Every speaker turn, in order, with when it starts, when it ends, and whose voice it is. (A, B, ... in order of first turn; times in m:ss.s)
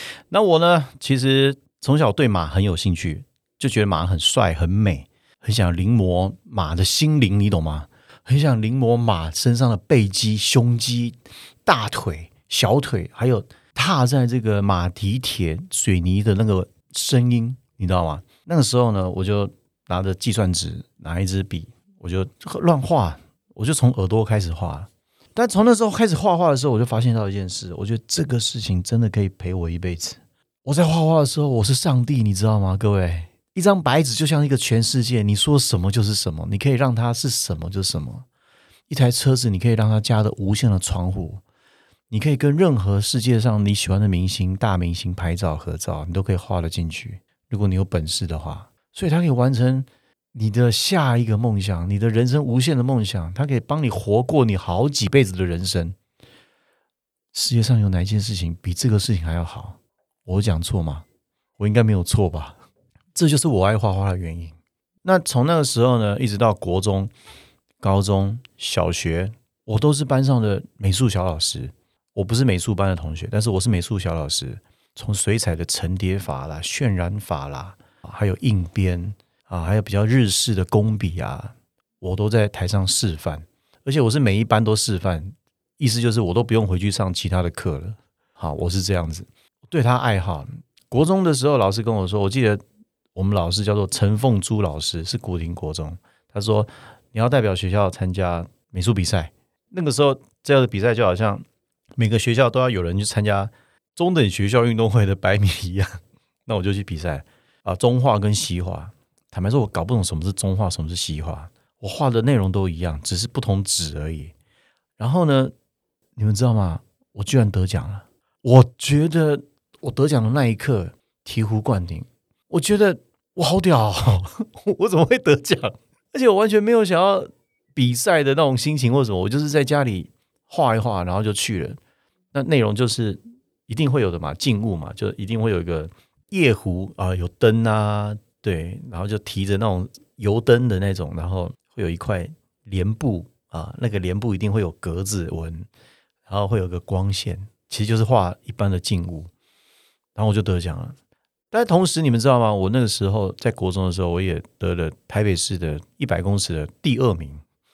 0:00.3-0:38.2 A
0:38.9-0:41.4 A
0:42.1-0:56.0 A
0:57.3-1:01.0 A
1:01.6-1:02.6 A
1:03.1-1:07.1 A
1:07.8-1:32.6 A
1:33.1-1:41.4 A
1:42.0-1:54.3 A
1:55.0-1:55.5 A
1:56.2-2:11.8 A
2:12.3-2:25.7 A
2:26.3-2:29.3 A
2:30.1-2:31.0 A
2:31.5-2:37.4 A